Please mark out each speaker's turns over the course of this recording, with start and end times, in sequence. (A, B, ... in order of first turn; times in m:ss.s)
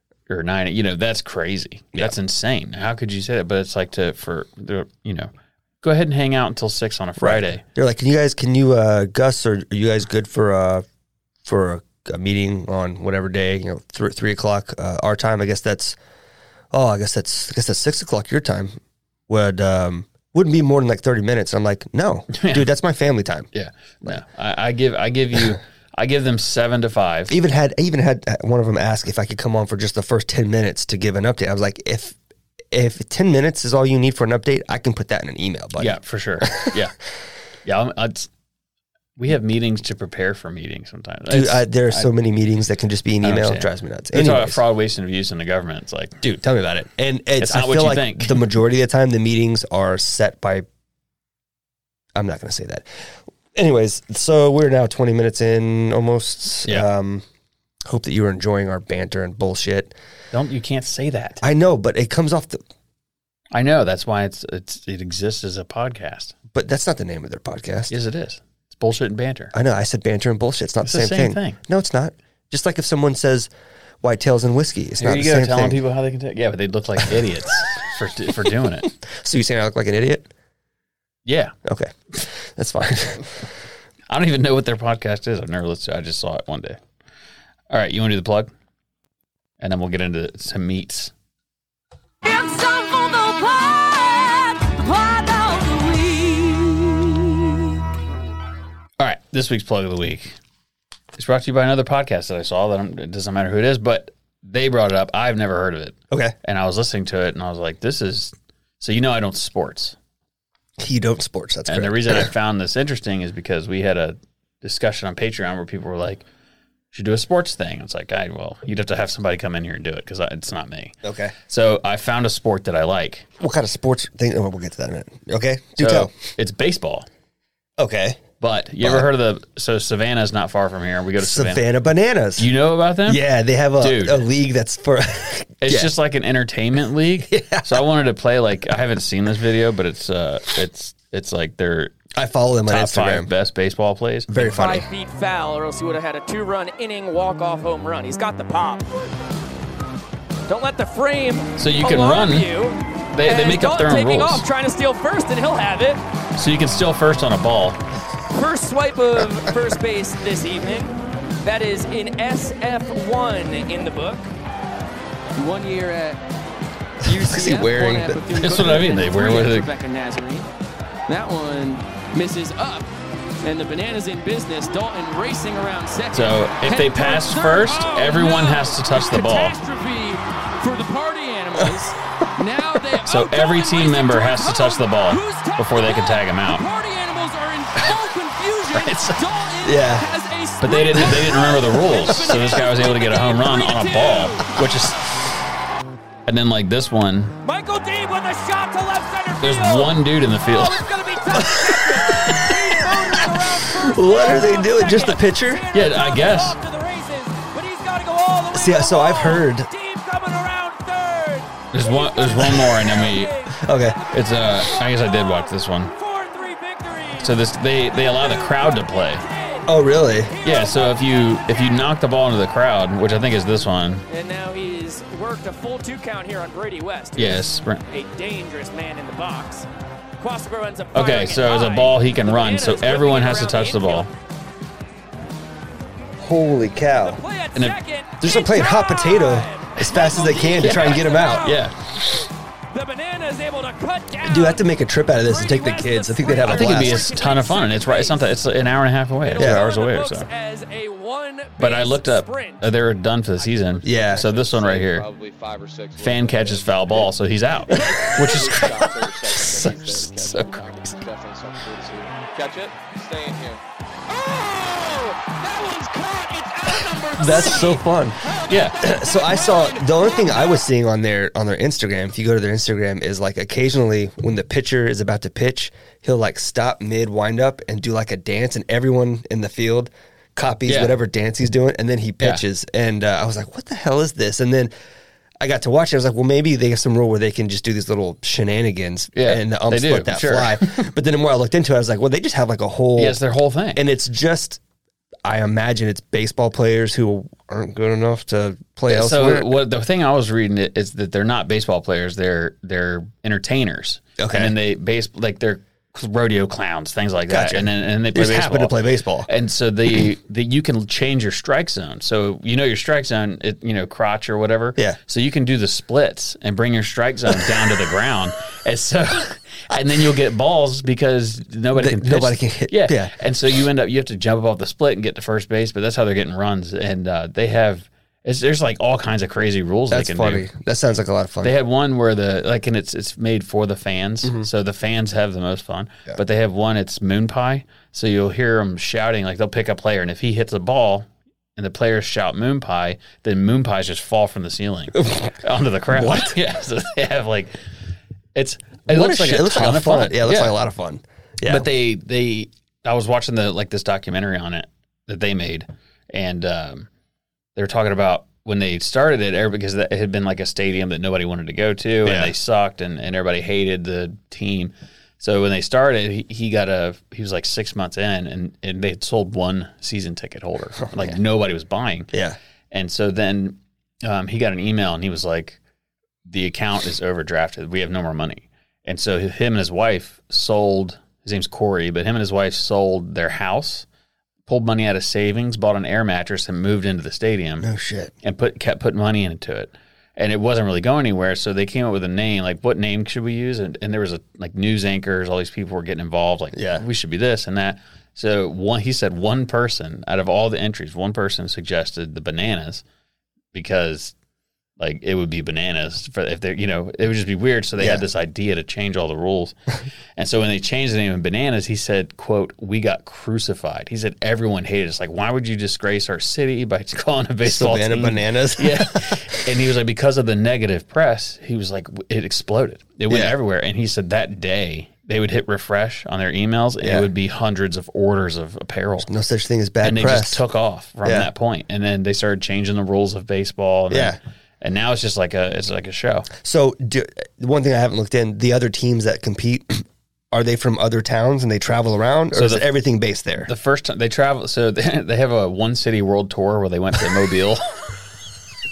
0:00.3-0:05.3 A
0:05.8-0:07.6 A
0:07.2-0:10.8 B
0:11.4-0:16.0 B
0:16.7-0:18.8 B
0:19.3-0:23.5 B
0:22.3-0:22.6 A
0:23.5-0:27.3 A
0:27.3-0:32.2 B
0:32.7-0:36.8 B
0:35.8-0:36.9 A
0:37.6-0:38.3 A
0:39.2-0:42.1 A
0:41.3-0:44.6 B
0:43.2-0:46.2 A
0:46.2-0:50.6 B
0:47.4-0:48.4 A
0:52.1-0:52.9 B
0:53.5-0:57.2 B
0:57.8-0:59.9 B
1:00.3-1:01.4 A
1:01.4-1:02.6 B
1:03.5-1:06.3 A
1:06.5-1:07.9 B
1:07.9-1:09.5 A
1:09.5-1:13.5 B
1:10.8-1:11.6 A
1:14.0-1:15.8 B
1:15.0-1:18.9 A
1:19.0-1:20.3 B
1:21.2-1:21.5 A
1:21.6-1:23.4 B
1:24.1-1:26.8 A
1:27.7-1:28.5 A
1:29.6-1:31.1 A
1:32.2-1:37.0 C
1:39.0-1:40.3 A
1:41.1-1:50.0 A
1:46.1-1:46.3 B
1:50.8-1:52.3 B
1:51.7-1:56.2 A
1:56.9-2:01.0 A
2:01.0-2:01.3 B
2:01.5-2:03.2 A
2:03.4-2:06.1 B
2:05.8-2:07.1 A
2:07.8-2:08.2 B
2:08.4-2:11.6 A
2:08.8-2:09.1 B
2:11.2-2:12.5 B
2:12.4-2:13.2 A
2:13.0-2:15.9 B
2:13.8-2:14.2 A
2:15.6-2:21.9 A
2:17.3-2:17.8 B
2:22.1-2:23.3 B
2:22.7-2:24.3 A
2:24.3-2:24.9 B
2:24.4-2:29.1 D
2:30.5-2:36.0 D
2:31.6-2:32.5 A
2:33.1-2:34.4 A
2:36.4-2:37.8 A
2:38.3-2:44.3 D
2:45.4-2:46.2 D
2:47.0-2:50.5 D
2:47.0-2:48.2 B
2:48.4-2:49.7 A
2:51.1-2:52.9 D
2:53.4-3:14.6 D
2:56.1-2:59.5 A
3:03.0-3:06.6 A
3:08.7-3:09.2 A
3:09.6-3:10.1 B
3:10.6-3:15.1 A
3:16.3-3:17.3 A
3:17.4-3:37.4 D
3:19.4-3:20.8 A
3:21.3-3:25.6 B
3:25.7-3:26.6 A
3:28.5-3:29.7 B
3:31.7-3:33.3 A
3:33.6-3:34.0 B
3:34.1-3:35.9 A
3:37.2-3:39.2 A
3:37.9-3:41.8 D
3:39.6-3:40.3 B
3:40.4-3:44.0 A
3:44.1-3:49.7 D
3:47.2-3:47.8 A
3:50.2-3:54.1 D
3:50.9-3:54.1 A
3:56.2-3:57.2 B
3:57.0-4:01.6 D
3:58.2-4:01.5 B
4:00.6-4:01.8 A
4:02.7-4:04.6 D
4:04.2-4:07.1 B
4:05.2-4:08.4 D
4:06.5-4:10.3 A
4:09.2-4:12.6 D
4:09.4-4:09.6 B
4:11.6-4:15.0 A
4:13.8-4:14.2 B
4:14.0-4:23.6 E
4:16.0-4:21.0 A
4:17.7-4:18.0 B
4:18.6-4:18.9 B
4:24.1-4:30.3 D
4:27.2-4:28.2 B
4:28.5-4:28.8 A
4:28.8-4:44.7 B
4:40.7-4:40.9 A
4:45.4-4:53.2 B
4:49.1-4:50.9 A
4:53.0-4:53.8 A
4:53.7-4:54.6 B
4:55.2-4:59.5 B
4:58.9-5:08.8 A
5:04.2-5:04.5 B
5:07.3-5:09.3 B
5:09.3-5:30.5 A
5:21.7-5:23.1 B
5:29.9-5:31.6 B
5:31.4-5:47.5 A
5:45.9-5:46.3 B
5:48.3-5:50.6 A
5:48.9-5:51.6 B
5:51.4-5:56.9 A
5:57.6-6:12.1 A
6:02.0-6:02.3 B
6:10.8-6:11.2 B
6:12.1-6:12.4 B
6:12.7-6:15.6 A
6:16.2-6:23.8 A
6:24.5-6:27.7 A
6:27.6-6:28.1 B
6:28.2-6:42.8 A
6:36.5-6:36.8 B
6:43.5-6:44.1 A
6:44.8-6:49.5 A
6:50.2-7:09.1 A
6:57.4-6:59.4 B
7:03.1-7:03.4 B
7:06.8-7:07.1 B
7:09.0-7:10.4 B
7:09.8-7:16.3 A
7:13.9-7:14.2 B
7:16.4-7:23.5 B
7:22.3-7:22.7 A
7:23.4-7:27.8 A